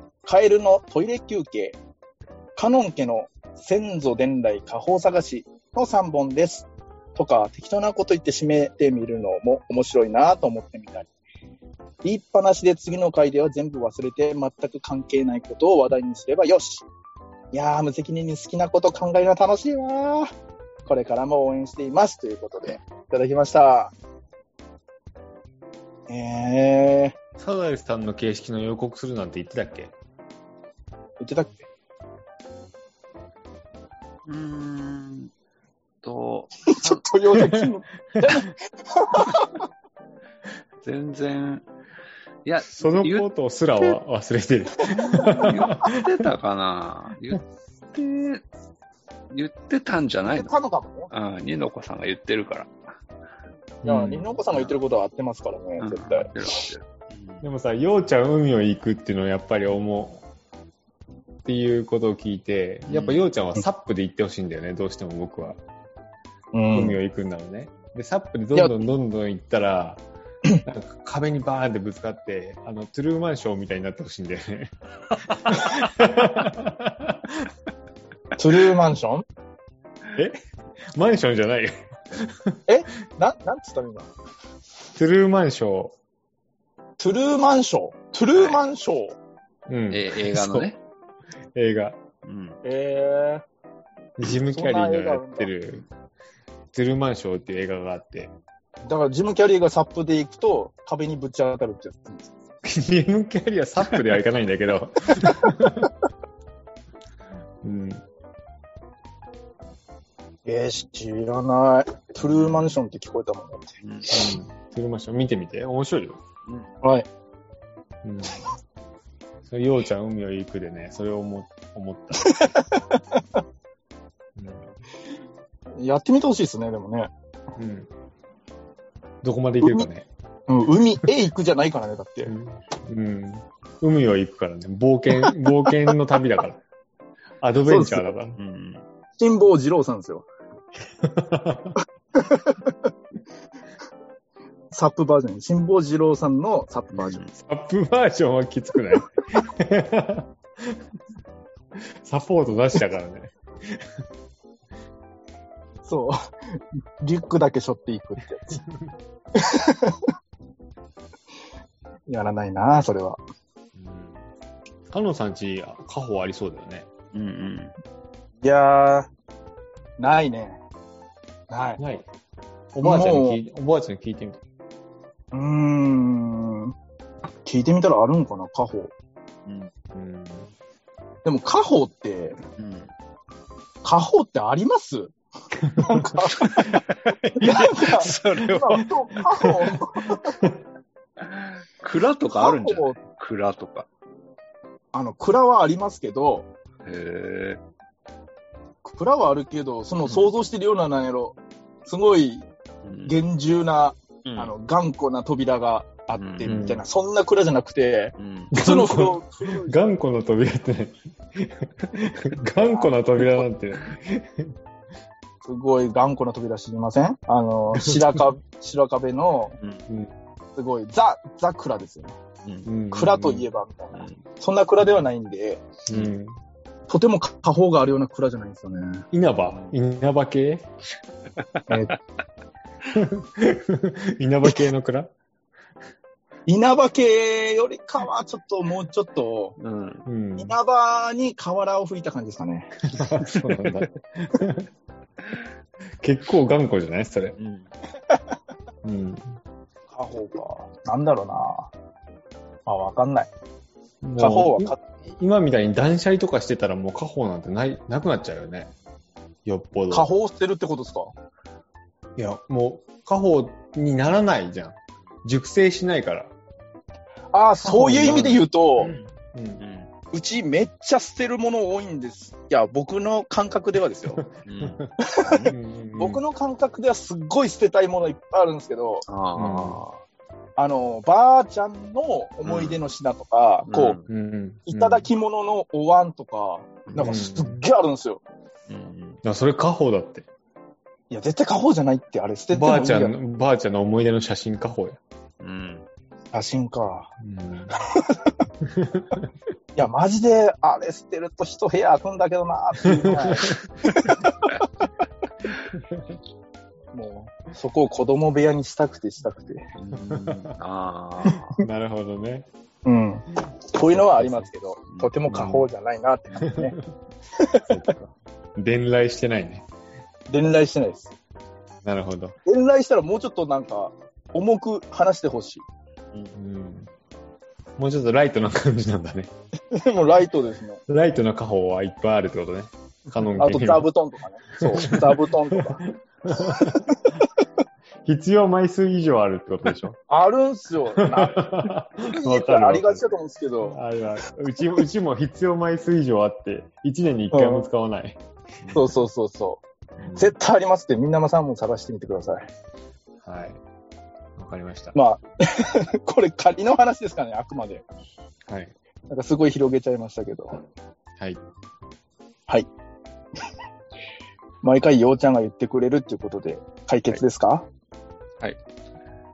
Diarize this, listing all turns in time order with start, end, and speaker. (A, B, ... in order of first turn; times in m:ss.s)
0:00.2-0:01.8 A
0:02.6-0:11.1 A
0:12.0-0:16.8 A
0:17.5-0:20.3 A
0:20.8-0:23.9 A
0:26.1-0:27.1 A
0:27.4-0:29.9 B
0:31.2-0:31.6 A
0:34.2-0:35.3 C
0:36.0-0:37.1 C
0:36.7-0:39.5 A
0:40.8-0:41.6 C
0:42.4-0:44.0 C
0:42.7-0:46.2 B
0:45.0-0:45.4 A
0:45.0-0:48.4 C
0:49.3-0:50.5 C
0:50.3-0:51.1 A
0:51.1-0:52.7 C
0:53.8-0:56.3 A
0:53.8-0:54.2 B
0:55.8-0:57.4 C
0:57.4-1:00.2 B
1:01.4-1:05.6 B
1:02.9-1:03.2 C
1:06.5-1:07.0 A
1:06.7-1:10.0 B
1:08.5-1:08.8 A
1:10.6-1:17.5 B
1:18.4-1:19.2 A
1:20.9-1:22.6 B
1:22.7-1:24.1 A
1:24.9-1:25.9 B
1:27.0-1:29.2 A
1:28.3-1:28.6 C
1:29.7-1:30.7 B
1:29.9-1:30.8 C
1:31.5-1:32.0 B
1:32.2-1:32.6 C
1:32.6-1:33.4 A
1:34.2-1:35.8 B
1:34.3-1:35.5 A
1:36.7-1:38.3 B
1:38.8-1:42.3 A
1:42.6-1:45.9 B
1:47.6-1:48.0 B
1:50.4-1:53.8 A
1:52.2-1:52.7 C
1:53.8-1:54.2 C
1:54.1-1:56.2 B
1:56.4-1:56.7 C
1:56.8-1:57.1 A
1:58.0-1:58.4 B
1:59.4-2:02.5 B
2:02.2-2:03.0 A
2:04.4-2:04.7 B
2:05.8-2:07.1 A
2:07.6-2:07.9 B
2:09.2-2:10.1 B
2:09.6-2:09.9 A
2:10.5-2:12.3 A
2:12.2-2:16.6 B
2:17.4-2:18.4 B
2:17.6-2:18.1 A
2:18.4-2:18.8 C
2:19.2-2:20.3 A
2:21.0-2:21.8 B
2:22.2-2:22.7 A
2:24.7-2:27.2 A
2:26.9-2:27.3 C
2:27.4-2:30.8 B
2:31.8-2:33.9 B
2:35.8-2:38.6 A
2:38.5-2:38.9 B
2:39.3-2:40.0 A
2:42.1-2:43.2 A
2:43.7-2:44.2 B
2:44.9-2:46.9 B
2:47.1-2:47.7 C
2:48.4-2:49.1 A
2:50.0-2:50.6 A
2:51.5-2:51.8 A
2:51.8-2:52.1 B
2:52.7-2:54.4 B
2:52.8-2:53.4 A
2:55.3-2:56.7 A
2:57.4-2:58.9 A
2:59.4-2:59.7 C
2:59.9-3:00.5 B
3:01.2-3:02.4 A
3:02.6-3:02.9 C
3:03.8-3:05.1 A
3:05.6-3:06.1 B
3:05.8-3:06.8 A
3:06.4-3:08.9 C
3:07.4-3:10.3 A
3:11.2-3:13.9 C
3:12.3-3:13.0 A
3:14.9-3:16.5 A
3:16.8-3:17.6 C
3:18.8-3:22.5 A
3:20.0-3:20.3 C
3:22.8-3:23.2 C
3:23.0-3:29.8 A
3:24.2-3:24.5 C
3:26.2-3:26.6 C
3:26.4-3:26.8 B
3:28.2-3:28.5 C
3:28.5-3:34.6 B
3:32.6-3:32.9 A
3:35.4-3:39.6 A
3:39.6-3:39.8 C
3:39.9-3:40.1 B
3:40.6-3:42.2 A
3:42.4-3:42.7 C
3:42.6-3:43.4 B
3:42.9-3:45.6 A
3:43.9-3:44.2 C
3:45.9-3:46.4 B
3:46.9-3:49.0 A
3:49.1-3:50.7 B
3:49.5-3:49.7 C
3:51.7-3:52.0 A
3:52.9-3:55.1 B
3:56.5-3:59.5 A
3:59.6-4:00.0 C
4:00.0-4:00.6 B
4:00.4-4:02.8 A
4:02.9-4:04.7 B
4:03.3-4:03.8 C
4:06.0-4:07.4 B
4:07.4-4:07.7 C
4:08.8-4:09.4 B
4:09.9-4:11.7 A
4:12.7-4:13.3 A
4:14.0-4:18.7 B
4:14.2-4:14.8 A
4:19.4-4:20.1 B
4:19.9-4:21.1 A
4:22.2-4:26.3 B
4:27.3-4:28.9 A
4:27.6-4:29.6 B
4:29.6-4:29.9 C
4:30.1-4:34.2 A
4:34.1-4:34.9 B
4:34.4-4:35.5 C
4:35.0-4:39.0 A
4:35.4-4:36.2 B
4:39.1-4:40.0 C
4:39.3-4:39.8 B
4:40.6-4:44.0 A
4:42.4-4:42.8 C
4:43.7-4:44.1 C
4:44.1-4:45.1 B
4:44.7-4:48.2 A
4:46.9-4:47.1 C
4:47.0-4:47.6 B
4:48.7-4:49.2 C
4:49.2-4:50.2 B
4:51.1-4:53.1 A
4:52.5-4:55.0 B
4:55.4-4:55.8 C
4:56.3-4:57.1 A
4:57.2-4:57.7 B
4:58.6-4:59.3 B
4:59.8-5:04.5 A
5:02.9-5:03.5 B
5:06.9-5:09.6 A
5:09.8-5:11.6 C
5:09.9-5:10.5 B
5:11.3-5:12.5 B
5:12.8-5:16.8 A
5:13.9-5:14.5 B
5:15.3-5:15.7 B
5:16.4-5:16.7 B
5:17.7-5:19.6 B
5:20.3-5:21.1 A
5:21.8-5:22.4 B
5:22.4-5:25.6 A
5:26.3-5:26.9 B
5:27.8-5:29.3 B
5:29.7-5:30.8 A
5:30.9-5:33.9 B
5:33.4-5:37.1 A
5:34.6-5:37.0 B
5:38.0-5:40.0 B
5:40.1-5:43.8 A
5:41.0-5:43.0 B
5:43.7-5:48.2 B
5:47.3-5:47.7 A
5:48.6-5:48.9 C
5:48.7-5:49.6 A
5:50.0-5:50.3 B
5:50.1-5:52.5 A
5:53.2-5:53.6 B
5:54.4-5:55.0 B
5:54.9-5:57.8 A
5:58.5-5:58.7 B
5:59.1-6:00.6 A
6:04.6-6:07.6 A